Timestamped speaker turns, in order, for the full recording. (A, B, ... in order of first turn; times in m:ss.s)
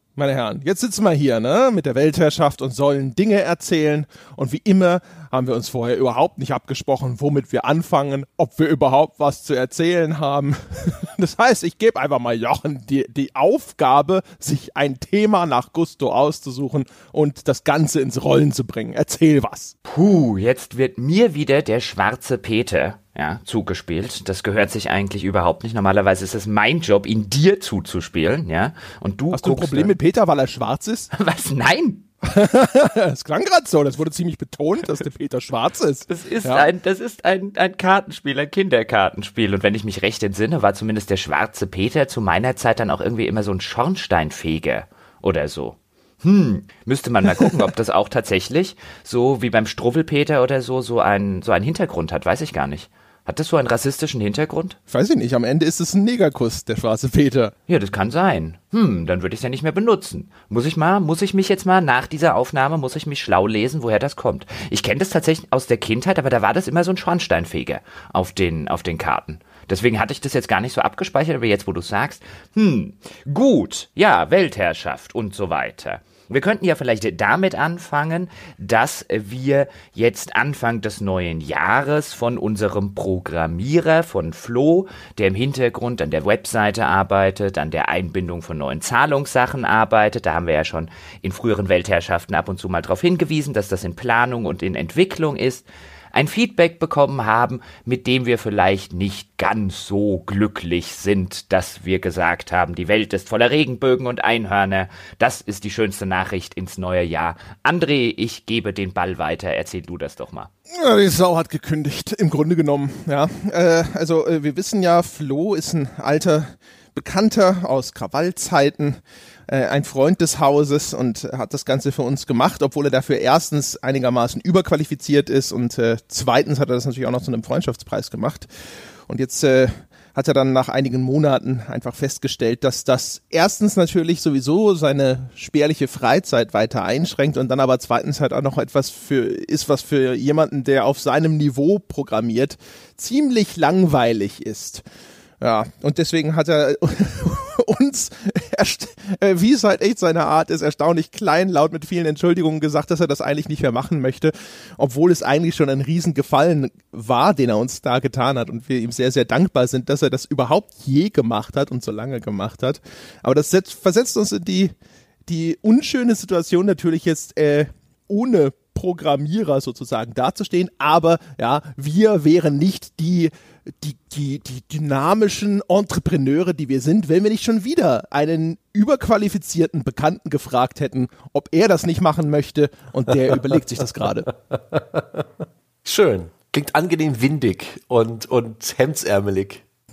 0:00.2-0:19.7 A
0:19.8-0:29.9 B
0:29.3-0:31.1 A
0:31.1-0:32.0 B
0:32.2-0:36.7 A
0:36.1-0:54.8 B
0:54.9-0:57.5 A
0:57.7-1:50.5 B
1:50.7-2:08.5 A
2:09.1-2:24.8 A
2:25.4-2:44.7 A
2:45.3-3:04.3 A
3:04.7-3:05.2 C
3:05.8-3:09.6 C